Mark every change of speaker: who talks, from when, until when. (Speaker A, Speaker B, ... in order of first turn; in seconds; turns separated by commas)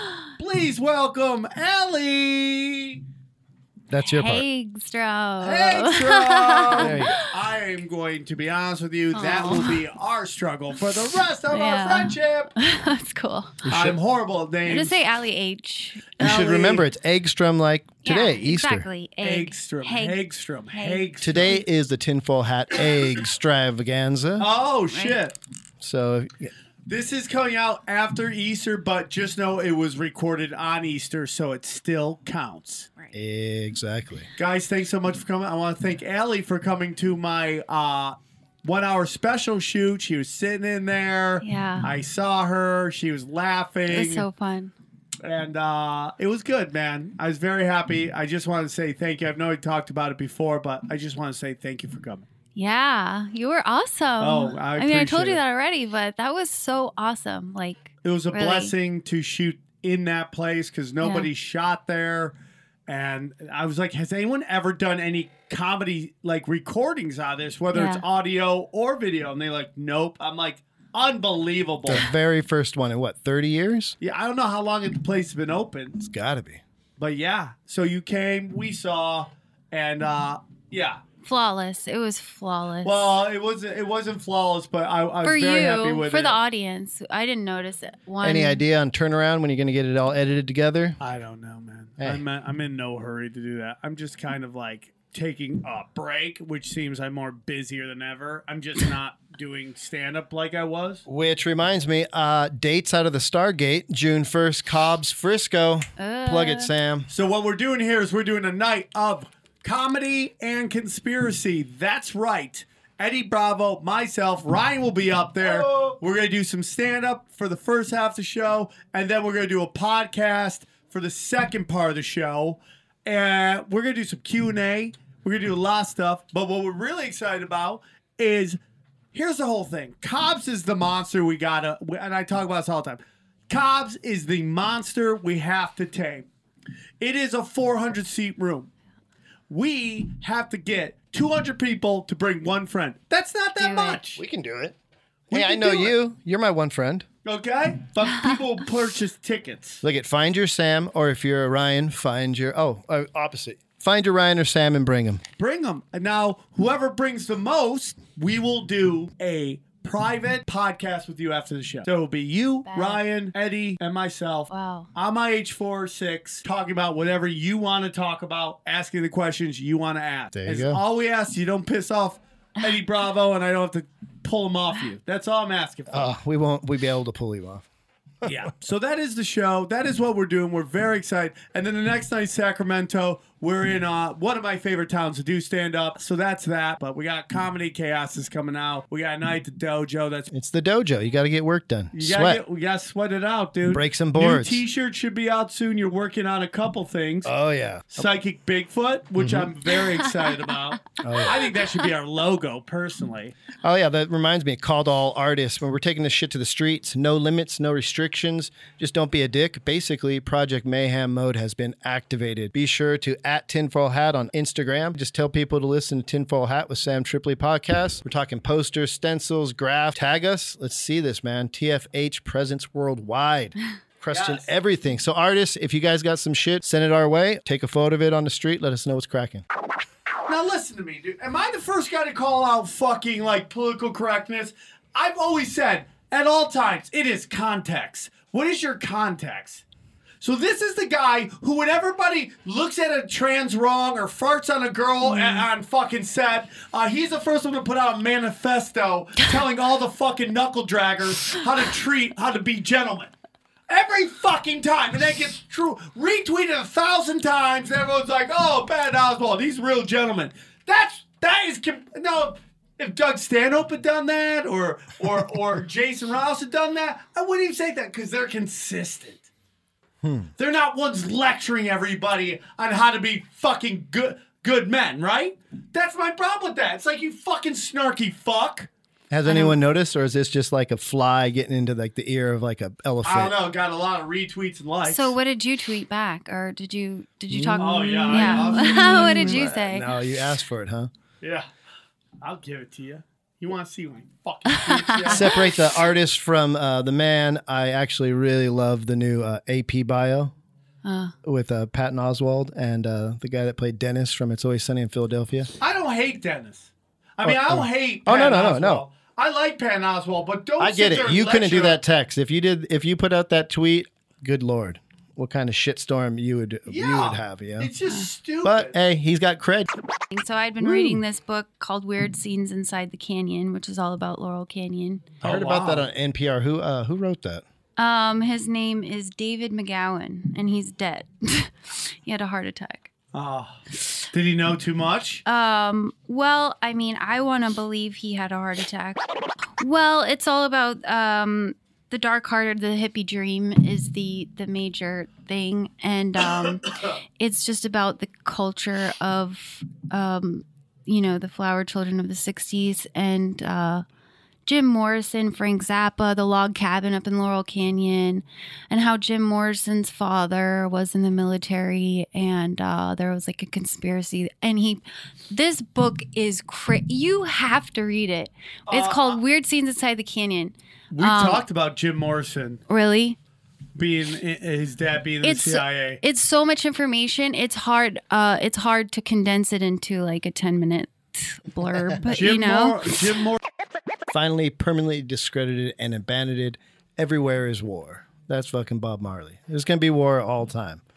Speaker A: 0.4-3.0, Speaker B: 3.9-4.5, Speaker C: 4.0-7.3, Speaker A: 5.4-12.5, Speaker B: 6.8-7.2, Speaker C: 9.1-9.8, Speaker C: 11.5-13.6, Speaker B: 13.6-13.9, Speaker A: 13.7-15.0, Speaker C: 14.7-16.4, Speaker B: 16.2-18.9, Speaker A: 16.2-16.9, Speaker C: 18.0-21.1, Speaker A: 19.2-21.6, Speaker B: 21.2-24.5, Speaker A: 24.4-25.3, Speaker C: 24.9-25.2, Speaker B: 25.8-26.5, Speaker A: 26.9-32.9, Speaker B: 33.1-34.3, Speaker A: 34.4-44.3, Speaker C: 41.4-41.9, Speaker C: 43.9-44.7, Speaker A: 45.2-52.2, Speaker C: 52.5-58.7, Speaker A: 54.2-55.4, Speaker A: 58.0-62.3, Speaker C: 61.0-61.3, Speaker A: 62.9-72.1, Speaker C: 67.7-68.0, Speaker B: 71.8-73.9, Speaker A: 74.0-76.0, Speaker B: 76.0-76.6, Speaker A: 77.0-81.0, Speaker C: 81.2-83.1, Speaker A: 82.8-86.4, Speaker C: 85.2-88.6, Speaker B: 88.2-91.0, Speaker A: 91.0-101.0, Speaker B: 101.0-107.1, Speaker C: 106.0-106.7, Speaker A: 107.1-128.6, Speaker A: 129.1-136.3, Speaker A: 137.0-138.7, Speaker A: 139.5-144.2, Speaker C: 143.6-144.0, Speaker B: 144.1-144.8, Speaker B: 145.3-147.1, Speaker A: 145.3-145.9, Speaker A: 147.2-149.8, Speaker C: 148.1-148.3, Speaker B: 149.8-155.2, Speaker A: 155.4-176.1, Speaker C: 162.6-163.0, Speaker C: 164.5-164.9, Speaker B: 170.3-170.8, Speaker B: 175.9-177.6, Speaker A: 178.2-190.3, Speaker B: 190.3-192.4, Speaker A: 191.9-197.3, Speaker B: 193.7-194.6, Speaker B: 197.2-198.0, Speaker A: 197.9-203.3, Speaker B: 199.2-199.5, Speaker B: 201.0-201.4, Speaker B: 203.6-229.4, Speaker A: 224.1-224.5, Speaker A: 230.2-239.6, Speaker A: 240.2-253.1, Speaker C: 245.0-245.4, Speaker A: 253.7-269.3, Speaker B: 270.0-270.3, Speaker A: 270.4-278.7, Speaker B: 279.1-283.3, Speaker C: 279.2-279.6, Speaker A: 283.0-285.1, Speaker C: 284.8-289.9, Speaker B: 287.3-290.9, Speaker A: 287.6-289.5, Speaker A: 292.2-295.5, Speaker C: 294.6-295.4, Speaker B: 295.1-300.3, Speaker C: 300.8-301.1, Speaker B: 301.2-305.5, Speaker A: 305.6-311.8, Speaker B: 307.2-308.8, Speaker B: 310.6-317.7, Speaker A: 316.7-318.8, Speaker B: 318.4-319.7, Speaker C: 320.1-325.1, Speaker B: 320.6-321.0, Speaker A: 325.2-325.9, Speaker B: 325.2-327.4, Speaker C: 327.8-332.9, Speaker A: 333.1-333.6, Speaker A: 334.1-335.2, Speaker C: 335.2-339.0, Speaker C: 339.6-353.8, Speaker C: 354.4-371.4, Speaker A: 368.7-369.2, Speaker A: 370.9-372.6, Speaker C: 372.7-373.2, Speaker A: 373.8-376.0, Speaker C: 375.2-383.0, Speaker A: 382.1-383.4, Speaker B: 384.1-390.8